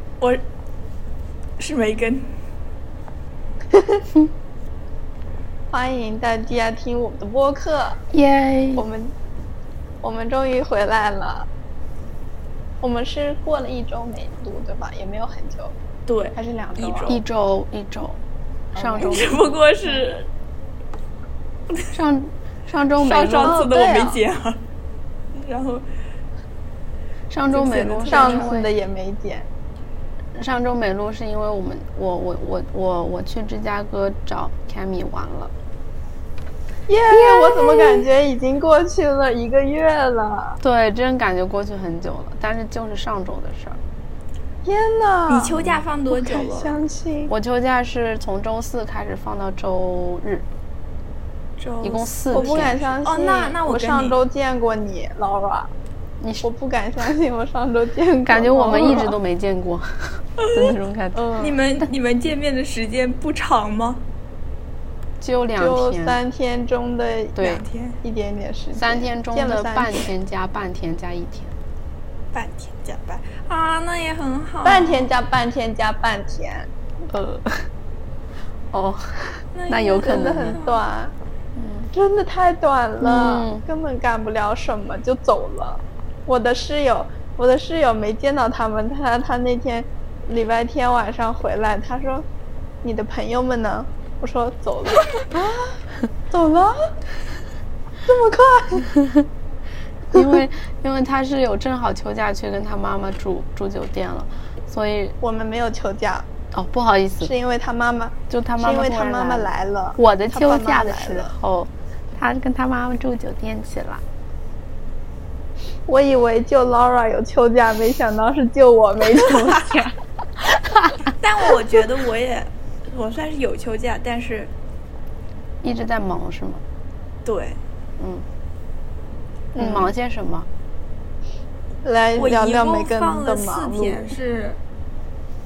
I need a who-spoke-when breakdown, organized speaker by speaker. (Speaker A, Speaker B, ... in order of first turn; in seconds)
Speaker A: 1.6-2.3, 16.1-17.2, 19.0-20.3, 23.0-24.6, 25.3-25.9, 27.5-28.6, 45.3-46.8, 51.6-54.2, 60.4-60.7, 61.4-64.0, 67.4-68.0, 72.3-75.1, 79.5-80.8, 121.1-124.5, 127.2-127.6, 132.2-134.6
Speaker B: 3.7-4.0, 5.7-8.0, 8.8-9.1, 10.0-11.5, 12.8-15.7, 16.4-17.2, 18.8-19.2, 23.4-24.2, 28.1-29.5, 36.9-40.6, 44.6-47.3, 52.3-55.7, 56.4-59.1, 61.1-61.6, 65.6-70.1, 74.6-76.7, 80.0-81.1, 81.9-92.3, 92.8-95.8, 96.3-96.9, 98.1-98.9, 105.2-106.3, 107.2-111.3, 115.9-120.0, 129.5-129.9, 131.8-134.1
Speaker C: 8.1-8.9, 17.1-18.2, 18.7-19.4, 21.9-23.6, 27.3-28.7, 30.3-35.5, 37.1-38.1, 40.6-43.8, 47.3-50.5, 51.8-52.8, 58.2-61.2, 65.2-66.2, 67.4-67.6, 68.8-71.6, 77.1-77.7, 78.7-80.6, 81.6-81.9, 83.0-83.7, 100.1-105.2, 106.5-107.3, 108.3-114.0, 125.6-126.6, 128.0-128.3, 129.6-130.5